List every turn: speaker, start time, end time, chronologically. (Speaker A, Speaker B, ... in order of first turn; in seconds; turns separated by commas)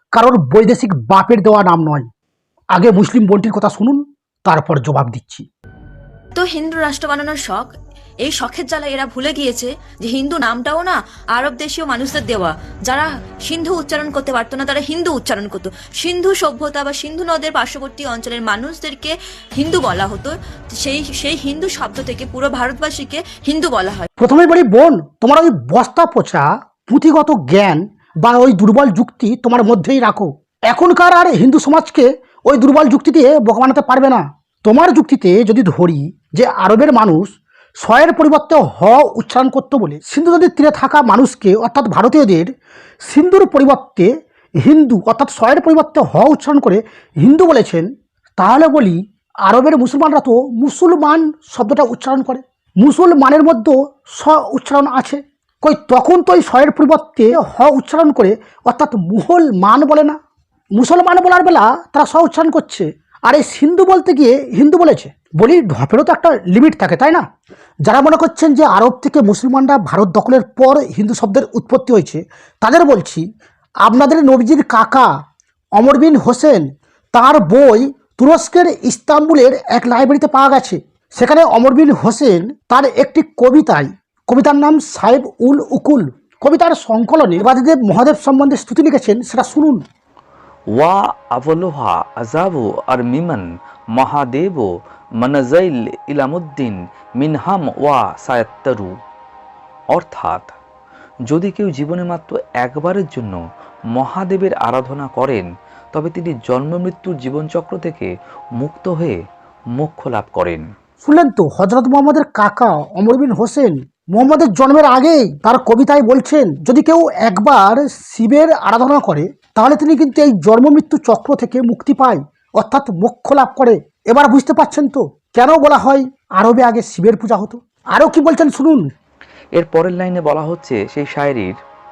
Speaker A: 0.1-2.1, Speaker A: 2.7-5.4, Speaker B: 6.3-7.7, Speaker B: 8.2-24.1, Speaker A: 24.2-42.5, Speaker A: 43.0-44.1, Speaker A: 44.6-60.2, Speaker A: 60.8-67.2, Speaker A: 67.8-73.2, Speaker A: 73.8-75.1, Speaker A: 75.8-89.8, Speaker C: 90.7-94.7, Speaker C: 95.2-98.9, Speaker C: 99.9-100.5, Speaker C: 101.3-103.4, Speaker C: 104.0-109.2, Speaker C: 109.8-110.6, Speaker A: 111.0-128.9, Speaker C: 129.6-131.5